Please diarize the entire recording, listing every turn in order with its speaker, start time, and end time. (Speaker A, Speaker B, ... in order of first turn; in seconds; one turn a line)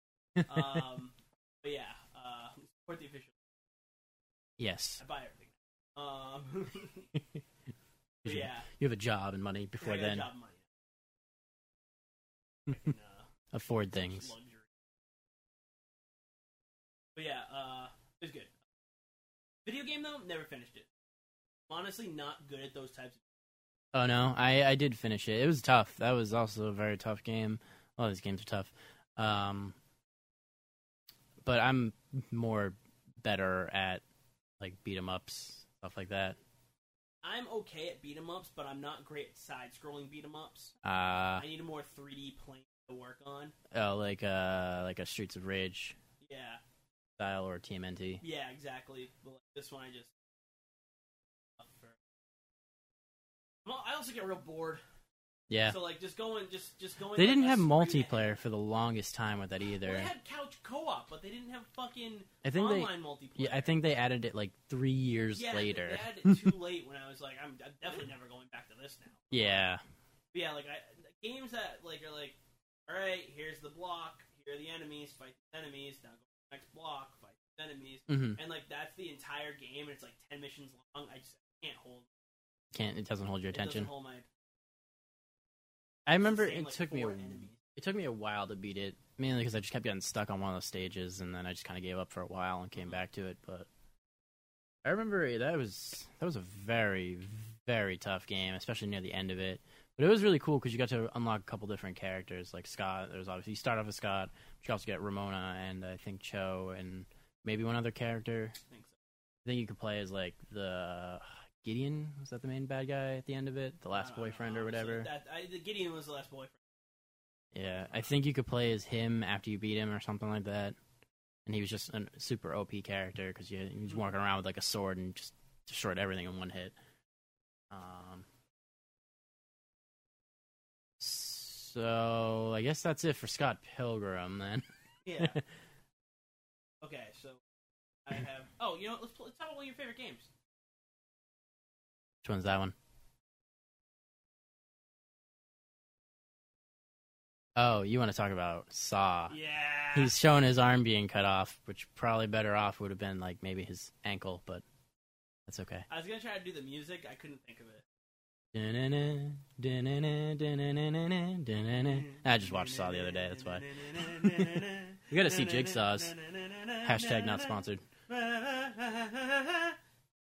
Speaker A: 0.4-0.8
Speaker B: 0.4-3.4
Speaker A: 4.6-5.0
Speaker B: 5.0-7.1
Speaker B: 8.2-8.7
Speaker A: 8.2-10.3
Speaker B: 9.8-10.7
Speaker B: 12.7-13.3
Speaker A: 13.5-14.3
Speaker B: 13.9-14.7
Speaker B: 17.2-18.5
Speaker B: 19.6-20.9
Speaker B: 21.7-23.2
Speaker A: 23.9-29.8
Speaker A: 31.4-34.0
Speaker A: 34.6-36.4
Speaker B: 37.2-40.8
Speaker A: 40.8-41.5
Speaker B: 41.4-43.5
Speaker A: 43.7-46.0
Speaker B: 46.2-46.6
Speaker A: 47.2-48.2
Speaker B: 48.2-50.1
Speaker B: 51.6-52.0
Speaker B: 53.6-54.8
Speaker A: 55.5-55.8
Speaker B: 55.6-58.4
Speaker A: 57.1-60.1
Speaker B: 59.8-63.8
Speaker A: 62.4-66.5
Speaker B: 65.3-69.7
Speaker A: 69.3-69.8
Speaker B: 70.3-72.4
Speaker B: 72.9-82.1
Speaker A: 78.1-78.4
Speaker A: 82.7-83.9
Speaker B: 83.5-84.3
Speaker A: 86.1-93.7
Speaker B: 86.2-87.6
Speaker A: 94.8-108.6
Speaker B: 108.7-109.0
Speaker A: 109.5-115.1
Speaker B: 113.9-116.6
Speaker A: 117.5-120.8
Speaker A: 121.5-126.8
Speaker A: 127.7-128.3
Speaker A: 131.0-134.7
Speaker B: 135.0-135.4
Speaker B: 136.8-137.4
Speaker B: 138.1-140.3
Speaker A: 142.2-142.8
Speaker A: 147.6-149.3
Speaker B: 149.3-150.2
Speaker A: 149.9-154.6
Speaker A: 155.5-155.9
Speaker B: 155.9-157.8
Speaker A: 158.5-166.1
Speaker B: 161.8-169.8
Speaker A: 166.8-167.8